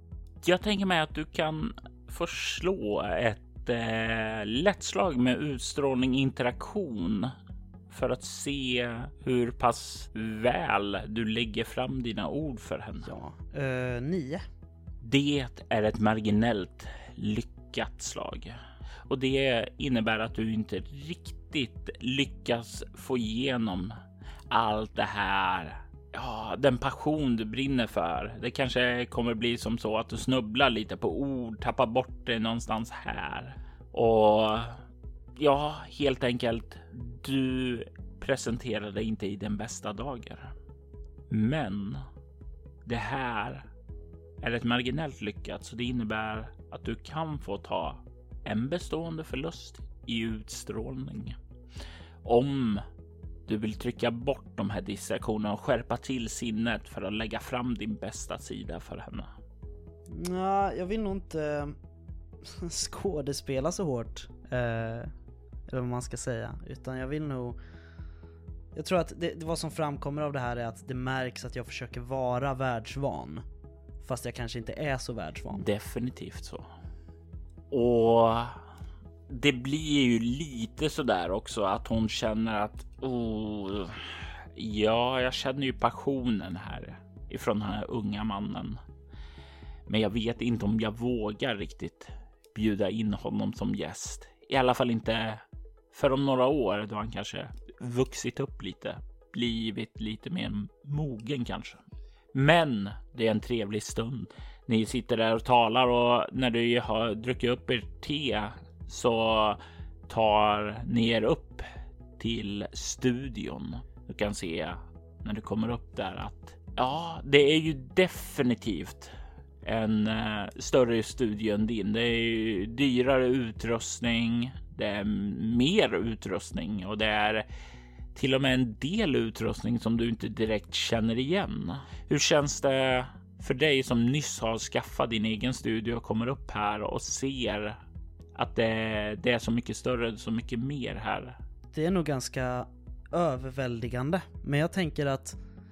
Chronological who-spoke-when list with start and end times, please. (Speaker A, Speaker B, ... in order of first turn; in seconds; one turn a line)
Speaker A: 0.4-7.3
Speaker A: 7.9-13.1
Speaker B: 13.1-14.4
Speaker A: 15.0-23.9
Speaker A: 24.5-34.8
Speaker A: 35.4-40.5
Speaker A: 41.3-42.0
Speaker A: 42.9-43.7
Speaker A: 44.4-51.4
Speaker A: 52.2-52.8
Speaker A: 53.5-59.3
Speaker B: 60.1-61.8
Speaker B: 62.4-65.1
Speaker B: 65.7-67.6
Speaker B: 68.7-73.5
Speaker B: 74.0-75.7
Speaker A: 75.5-76.7
Speaker A: 77.7-78.6
Speaker A: 79.3-88.8
Speaker A: 89.9-127.5
Speaker A: 128.1-137.8
Speaker A: 138.4-141.4
Speaker B: 141.7-145.4